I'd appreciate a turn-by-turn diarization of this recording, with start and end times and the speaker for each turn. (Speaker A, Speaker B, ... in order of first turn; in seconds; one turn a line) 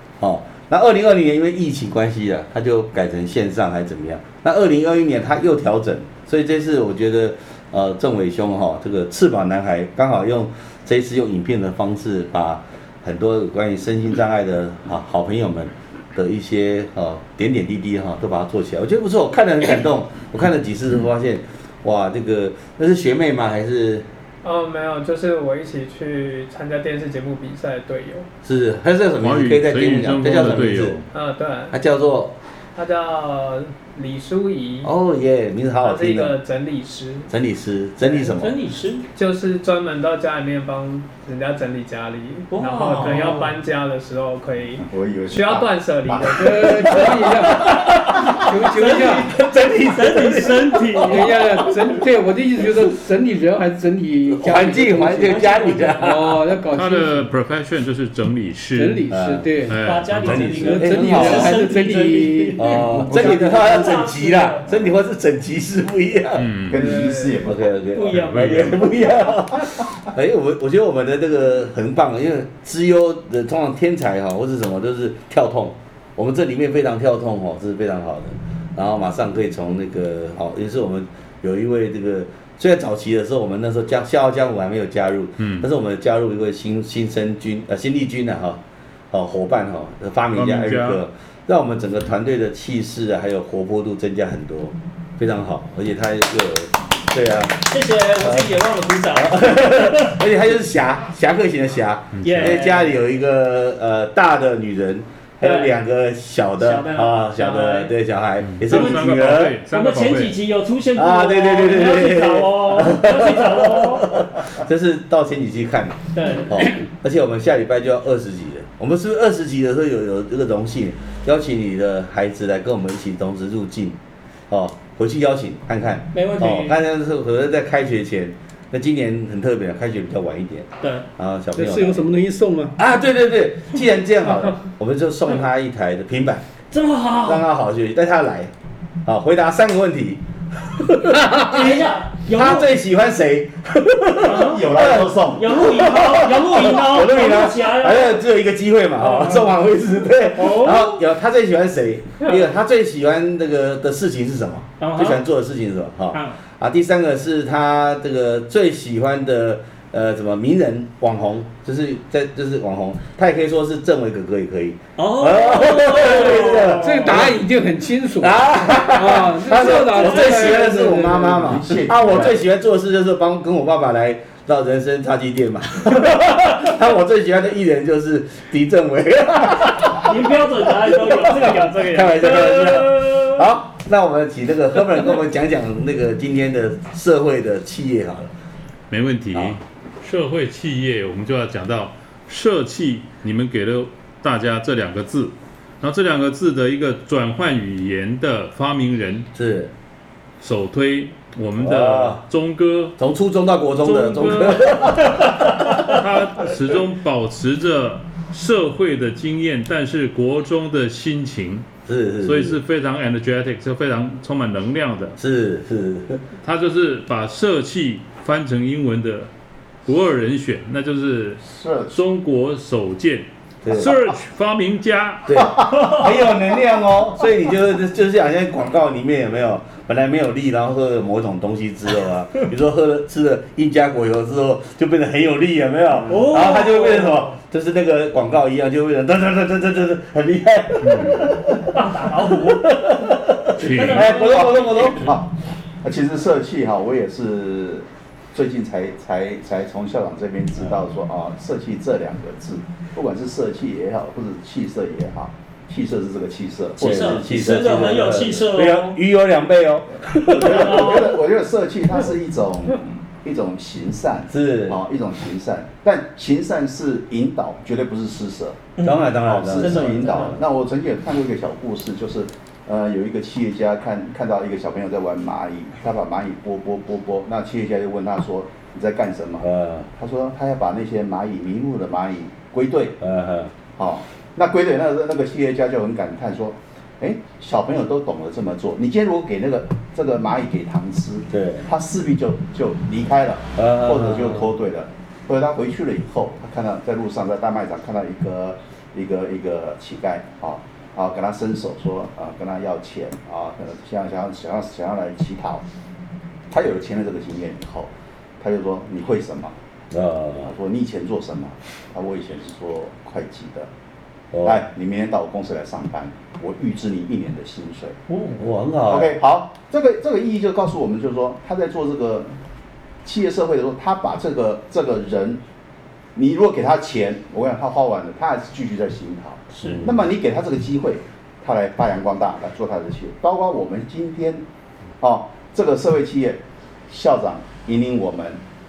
Speaker A: 0.2-24.1
Speaker B: 24.4-28.3
Speaker A: 28.4-31.0
Speaker C: 29.2-31.1
Speaker B: 31.1-31.8
Speaker A: 31.7-32.4
Speaker B: 32.8-34.9
Speaker A: 34.8-36.4
Speaker B: 35.8-37.3
Speaker A: 37.3-38.6
Speaker D: 38.2-39.1
Speaker B: 39.1-47.1
Speaker D: 42.5-43.5
Speaker E: 44.8-46.5
Speaker F: 46.3-49.3
Speaker A: 47.1-51.5
Speaker D: 47.6-51.4
Speaker F: 51.0-55.4
Speaker A: 54.3-56.4
Speaker D: 54.5-56.0
Speaker F: 56.0-57.3
Speaker C: 56.7-59.1
Speaker F: 58.8-59.8
Speaker A: 59.1-59.5
Speaker C: 59.6-60.7
Speaker D: 59.8-64.8
Speaker A: 60.2-61.7
Speaker F: 60.3-63.8
Speaker A: 62.6-66.5
Speaker C: 66.4-67.1
Speaker E: 66.7-67.6
Speaker B: 66.7-67.5
Speaker A: 67.4-97.7
Speaker D: 67.9-68.9
Speaker C: 68.1-68.7
Speaker C: 85.4-85.7
Speaker C: 90.3-91.0
Speaker D: 97.7-100.1
Speaker A: 98.2-98.5
Speaker A: 99.2-109.6
Speaker C: 102.2-102.6
Speaker D: 102.3-102.9
Speaker D: 106.6-107.1
Speaker B: 106.9-107.9
Speaker C: 108.5-110.4
Speaker D: 108.7-114.2
Speaker A: 111.0-124.0
Speaker D: 116.2-116.5
Speaker A: 124.5-132.0
Speaker D: 126.1-126.8
Speaker D: 130.8-131.1
Speaker F: 131.5-132.8
Speaker A: 132.8-136.5
Speaker D: 136.7-137.5
Speaker A: 137.2-138.5
Speaker A: 139.1-167.4
Speaker D: 141.3-142.7
Speaker D: 144.2-148.2
Speaker E: 144.2-145.4
Speaker D: 149.0-149.6
Speaker D: 150.3-151.0
Speaker D: 154.8-155.2
Speaker D: 156.1-156.4
Speaker D: 165.0-167.3
Speaker F: 166.6-171.8
Speaker A: 168.2-188.3
Speaker D: 169.7-170.8
Speaker E: 171.3-172.3
Speaker D: 179.9-183.4
Speaker C: 188.9-199.3
Speaker A: 199.3-199.7
Speaker C: 200.4-202.9
Speaker A: 201.6-202.2
Speaker A: 203.0-206.0
Speaker C: 203.8-211.7
Speaker A: 211.9-212.6
Speaker C: 212.2-215.2
Speaker A: 215.2-216.2
Speaker C: 216.4-219.3
Speaker C: 219.9-225.8
Speaker E: 221.4-222.0
Speaker A: 223.6-224.0
Speaker A: 225.3-245.2
Speaker D: 236.1-237.3
Speaker C: 240.8-241.2
Speaker D: 241.7-242.8
Speaker C: 243.6-244.2
Speaker D: 243.6-245.1
Speaker E: 244.3-245.3
Speaker E: 245.8-258.3
Speaker D: 256.8-259.0
Speaker A: 256.8-261.1
Speaker E: 260.3-268.7
Speaker D: 260.4-261.1
Speaker A: 264.3-264.8
Speaker D: 268.8-270.4
Speaker A: 268.8-270.3
Speaker E: 269.2-283.0
Speaker A: 279.4-279.9
Speaker A: 283.0-283.5
Speaker E: 283.7-305.6
Speaker A: 291.3-291.7
Speaker A: 293.6-294.5
Speaker E: 306.5-309.6
Speaker A: 309.9-310.5
Speaker E: 310.4-313.7
Speaker A: 314.3-314.7
Speaker E: 314.4-318.0
Speaker D: 318.1-318.4
Speaker A: 318.4-319.1
Speaker E: 318.9-322.3
Speaker E: 323.0-325.4
Speaker E: 326.1-334.4
Speaker D: 329.5-329.8
Speaker A: 329.6-330.0
Speaker E: 335.0-338.4